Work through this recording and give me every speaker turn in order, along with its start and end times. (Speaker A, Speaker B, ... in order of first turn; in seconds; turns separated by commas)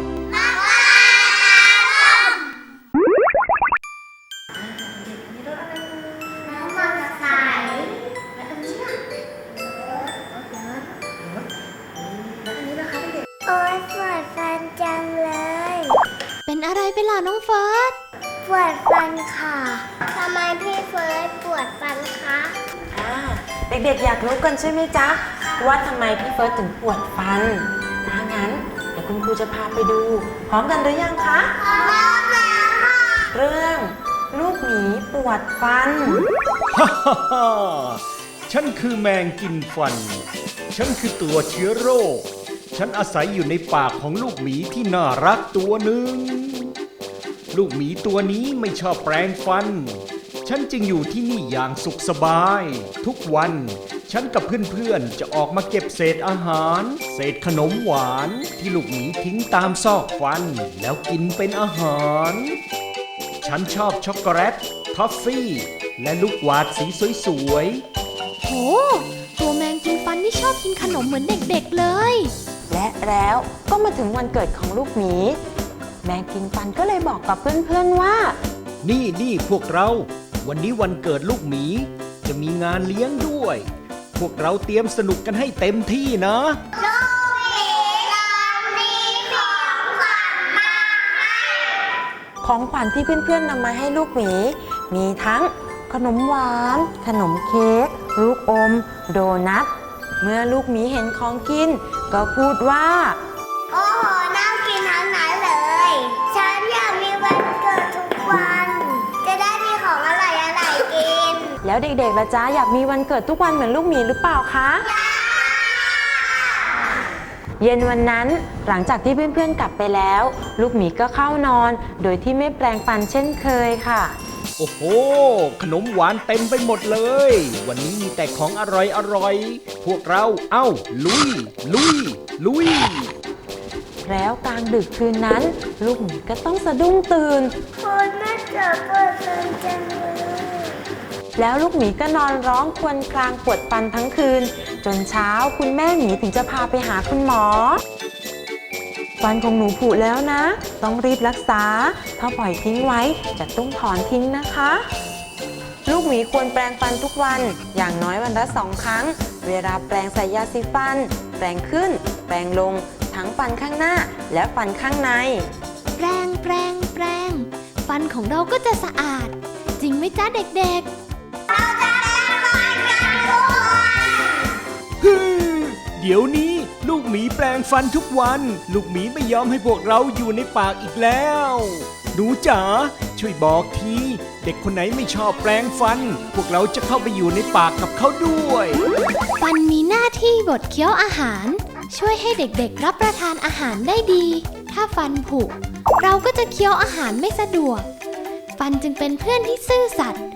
Speaker A: 0.3-2.5, Speaker A: 5.5-9.0, Speaker A: 9.6-10.9, Speaker A: 12.4-16.0, Speaker B: 16.4-18.0, Speaker A: 18.4-22.6, Speaker C: 22.9-31.6, Speaker A: 31.6-33.3, Speaker C: 33.3-36.2, Speaker D: 36.7-46.7, Speaker D: 47.5-62.6, Speaker D: 63.4-67.8, Speaker B: 68.4-72.3, Speaker C: 72.7-75.4, Speaker C: 76.0-78.4, Speaker D: 78.8-86.6, Speaker A: 86.7-92.0, Speaker C: 92.4-99.7, Speaker C: 100.2-103.2, Speaker A: 103.7-111.6, Speaker C: 111.6-114.9, Speaker A: 114.9-117.0, Speaker C: 117.6-124.2, Speaker D: 124.6-133.2, Speaker C: 134.0-137.6, Speaker A: 137.8-140.8, Speaker C: 141.3-147.8, Speaker C: 149.2-154.8, Speaker C: 155.8-165.5, Speaker B: 165.9-170.9, Speaker A: 171.5-174.6, Speaker D: 175.0-188.8, Speaker B: 189.4-197.9, Speaker B: 198.6-200.2